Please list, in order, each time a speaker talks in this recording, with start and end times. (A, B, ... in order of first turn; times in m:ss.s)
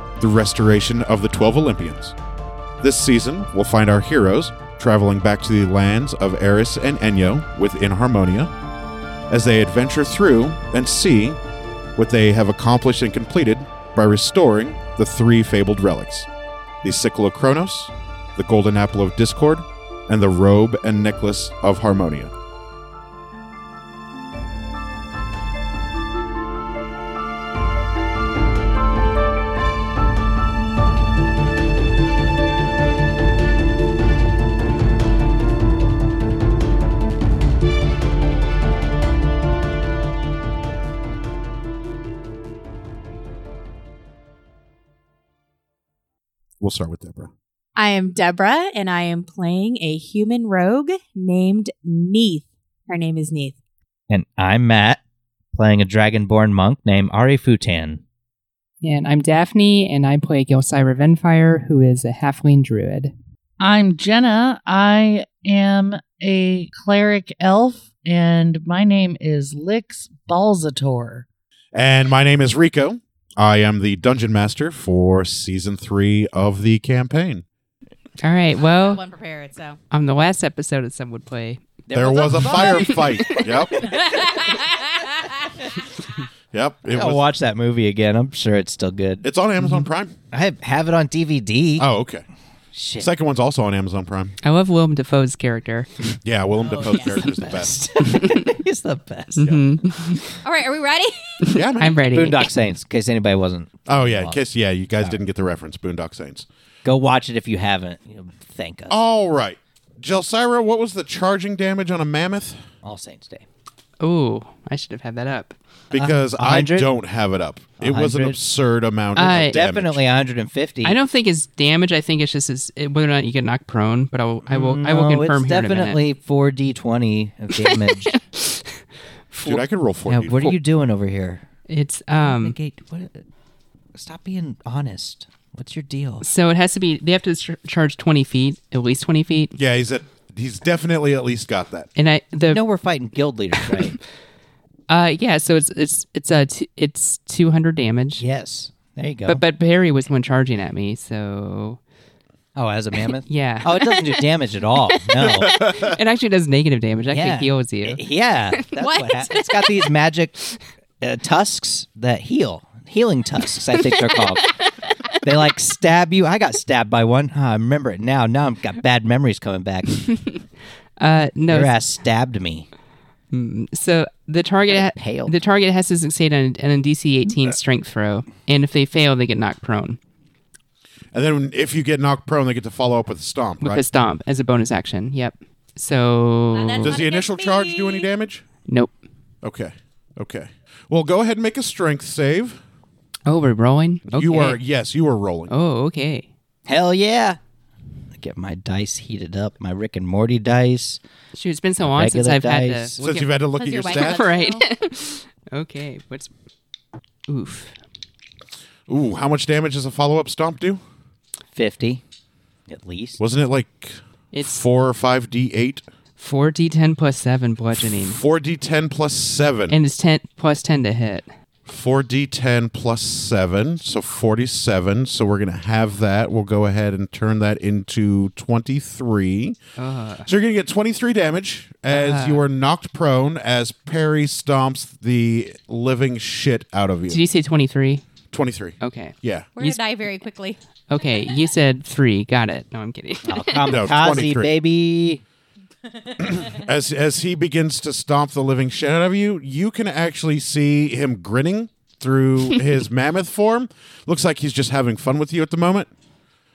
0:00.2-0:02.1 A
0:02.8-0:08.5 A
0:09.3-0:11.4 A
0:12.0-0:16.3 A
0:16.8-0:22.3 A
0:46.6-0:47.3 A
0:47.8-0:53.5 B
0:54.1-0:55.0 C
0:55.5-0:58.0 C
0:58.8-1:03.1 D
1:03.6-1:11.2 E
1:11.7-1:17.4 A
1:18.2-1:19.0 D
1:18.6-1:19.8 B
1:19.9-1:21.6 D
1:21.9-1:23.1 C
1:21.9-1:24.0 A
1:22.6-1:23.3 D
1:23.8-1:25.5 B
1:26.5-1:27.2 A
1:26.9-1:29.3 C
1:29.2-1:30.1 A
1:30.3-1:31.9 C
1:31.8-1:32.2 A
1:32.7-1:33.1 C
1:33.0-1:34.3 A
1:34.4-1:36.2 D
1:36.2-1:37.7 A
1:36.6-1:37.2 B
1:36.8-1:39.4 C
1:38.1-1:38.4 D
1:39.3-1:40.4 D
1:40.4-1:41.4 B
1:41.4-1:42.5 D
1:41.5-1:42.0 A
1:42.1-1:44.4 C
1:43.9-1:46.4 A
1:46.8-1:49.0 C
1:48.9-1:52.6 A
1:52.8-1:53.4 C
1:54.0-1:55.6 D
1:55.9-1:56.9 C
1:55.9-2:00.0 A
1:57.8-1:58.4 C
1:59.2-1:59.6 D
1:59.2-2:01.0 C
2:00.8-2:06.0 D
2:04.5-2:08.1 C
2:07.5-2:08.7 D
2:09.3-2:09.6 D
2:09.4-2:10.6 A
2:10.1-2:11.4 C
2:11.7-2:12.5 D
2:12.2-2:13.2 C
2:13.9-2:16.2 C
2:16.2-2:19.6 D
2:19.5-2:21.9 A
2:22.0-2:22.6 D
2:22.5-2:24.0 C
2:23.6-2:23.9 D
2:24.9-2:28.2 D
2:28.2-2:29.4 C
2:29.3-2:31.8 D
2:32.5-2:35.6 C
2:33.3-2:34.0 D
2:35.2-2:36.0 A
2:35.7-2:38.0 D
2:37.1-2:40.4 C
2:38.8-2:39.7 B
2:41.0-2:44.5 C
2:45.2-2:50.0 C
2:49.9-2:50.4 D
2:51.0-2:51.7 D
2:51.5-2:52.7 C
2:53.3-3:00.0 D
2:54.7-2:55.3 C
3:01.1-3:03.8 A
3:03.6-3:07.0 D
3:06.5-3:08.1 B
3:06.8-3:08.4 A
3:09.4-3:12.6 A
3:13.2-3:14.6 D
3:14.1-3:15.5 A
3:15.5-3:16.3 D
3:16.6-3:17.4 C
3:18.2-3:21.0 C
3:21.3-3:23.3 D
3:21.8-3:23.0 C
3:23.0-3:24.3 A
3:23.6-3:24.6 B
3:23.8-3:26.3 D
3:27.3-3:27.7 D
3:28.9-3:30.8 A
3:31.5-3:32.0 C
3:32.7-3:33.2 C
3:33.2-3:35.8 A
3:34.3-3:34.6 D
3:36.2-3:38.2 D
3:37.8-3:39.8 A
3:39.7-3:41.3 D
3:41.6-3:49.6 A
3:49.8-3:50.3 D
3:50.2-3:57.2 A
3:51.9-3:52.4 D
3:57.1-3:58.0 D
3:58.3-3:59.5 A
3:58.8-3:59.8 D
3:59.6-4:00.6 B
4:00.9-4:03.8 D
4:03.3-4:05.2 C
4:03.7-4:04.5 A
4:06.2-4:15.9 A